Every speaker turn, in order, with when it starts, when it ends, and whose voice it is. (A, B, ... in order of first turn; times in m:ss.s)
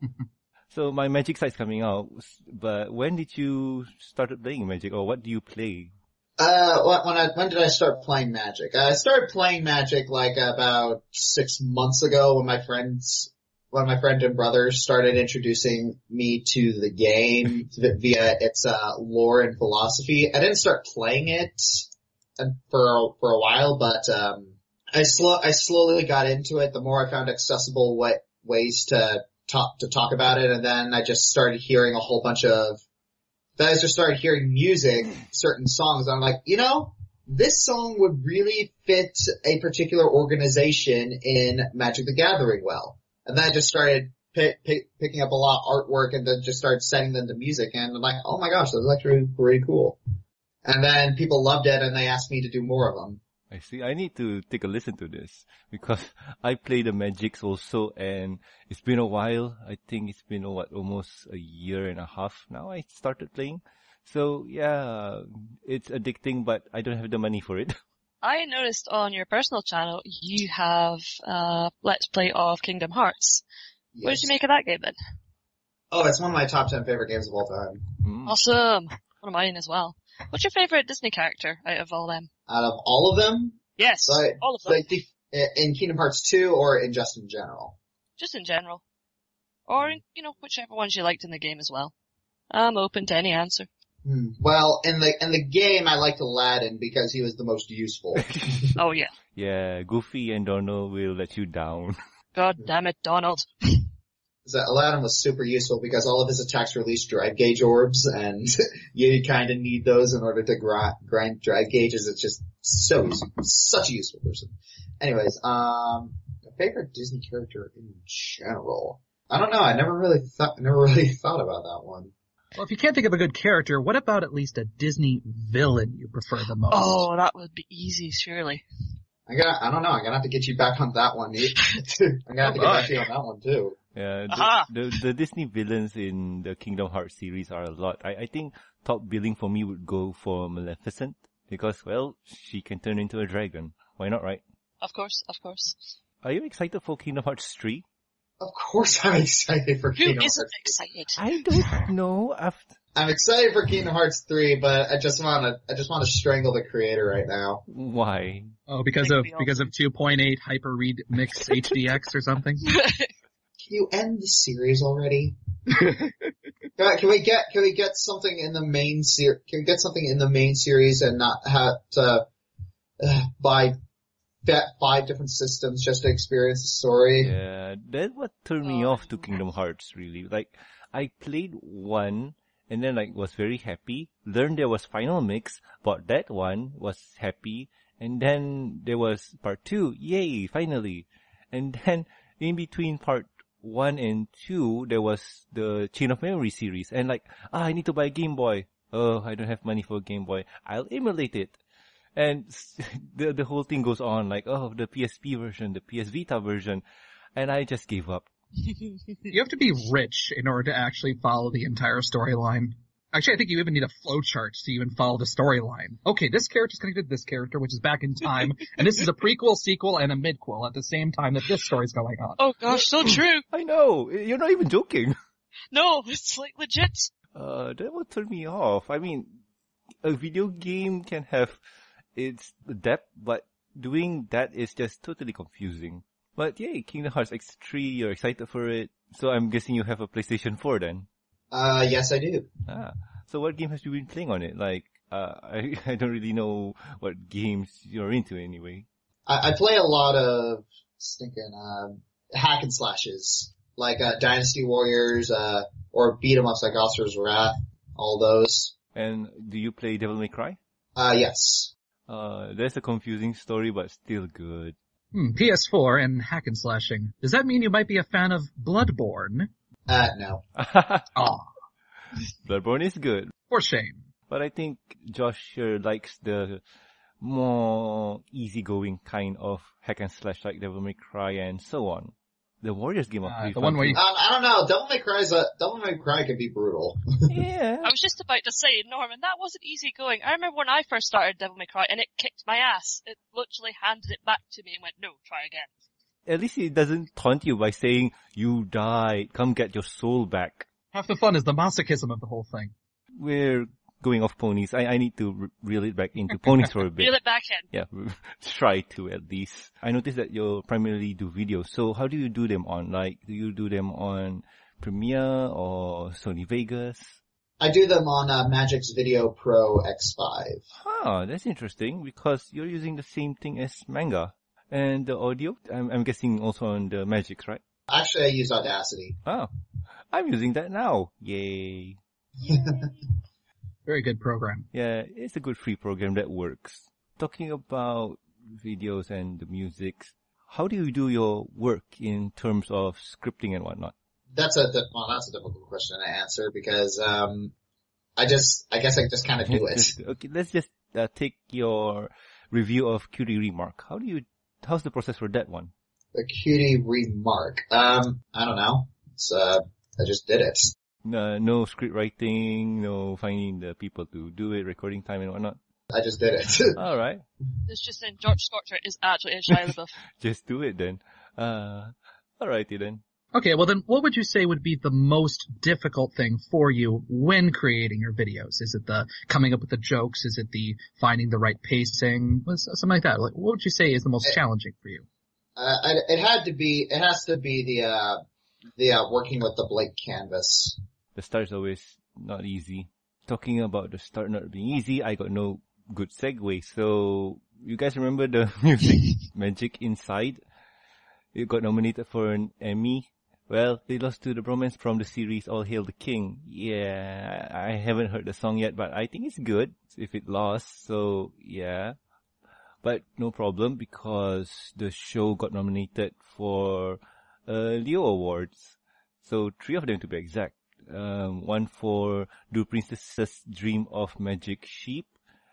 0:00.7-0:05.9 A
0:06.4-0:32.8 B
0:33.6-0:50.0 B
0:50.6-0:53.2 B
0:53.5-1:07.8 A
1:08.2-1:13.4 C
1:14.0-1:14.3 B
1:14.0-1:15.0 C
1:15.9-1:18.0 B
1:18.0-1:18.4 A
1:18.3-1:22.3 C
1:22.5-1:27.8 B
1:23.8-1:24.8 C
1:28.2-1:28.8 C
1:29.7-1:31.9 C
1:32.5-1:33.7 C
1:34.0-1:38.8 B
1:38.2-1:38.7 A
1:38.8-1:39.1 C
1:39.3-1:42.0 A
1:42.4-1:43.9 C
1:44.5-2:02.1 B
2:02.6-2:07.1 D
2:06.7-2:08.6 C
2:09.3-2:13.8 B
2:12.4-2:12.9 D
2:14.0-2:24.4 A
2:14.3-2:14.7 C
2:24.8-2:25.9 C
2:26.2-2:27.8 A
2:28.4-2:30.8 B
2:30.0-2:31.9 C
2:31.2-2:32.7 A
2:33.0-2:37.6 B
2:37.7-2:38.5 A
2:38.7-2:42.7 D
2:39.0-2:39.7 C
2:42.6-2:43.1 C
2:43.6-2:45.4 B
2:45.9-2:46.1 D
2:46.8-2:52.3 B
2:53.0-2:53.8 B
2:54.4-2:57.3 B
2:57.2-3:21.6 A
2:58.6-2:59.4 C
3:22.2-3:26.8 A
3:27.4-3:28.3 A
3:29.3-3:42.4 D
3:42.4-3:43.4 C
3:43.5-3:45.2 A
3:45.7-3:47.1 C
3:47.3-3:49.4 A
3:50.0-3:51.6 A
3:52.2-4:01.1 A
4:01.5-4:02.5 B
4:02.7-4:08.9 A
4:09.3-4:18.7 B
4:19.0-4:20.6 A
4:21.0-4:21.7 B
4:22.1-4:24.8 A
4:25.1-4:29.5 D
4:29.9-4:30.4 B
4:30.6-4:31.1 A
4:31.2-4:31.5 D
4:32.4-4:33.3 A
4:33.5-4:34.1 D
4:34.3-4:36.6 A
4:37.2-4:44.0 A
4:43.2-4:44.0 D
4:43.9-4:47.3 B
4:47.3-4:47.9 A
4:47.8-4:55.7 C
4:56.3-5:00.7 A
5:00.9-5:02.7 D
5:03.2-5:07.2 A
5:07.0-5:07.7 C
5:07.7-5:17.2 A
5:17.6-5:20.7 B
5:20.7-5:27.6 A
5:27.9-5:29.2 B
5:30.1-5:32.0 A
5:32.4-5:32.9 B
5:33.9-5:34.7 D
5:34.7-5:43.9 A
5:44.3-5:47.5 B
5:48.2-5:49.9 B
5:49.4-5:55.7 A
5:56.1-6:00.8 B
6:01.0-6:05.6 A
6:05.9-6:06.8 B
6:06.8-6:07.2 A
6:07.7-6:10.0 C
6:09.5-6:13.0 A
6:13.3-6:25.0 D
6:25.6-6:28.2 B
6:28.8-6:30.8 B
6:31.2-6:40.4 A
6:41.3-6:52.0 A
6:52.8-7:05.1 A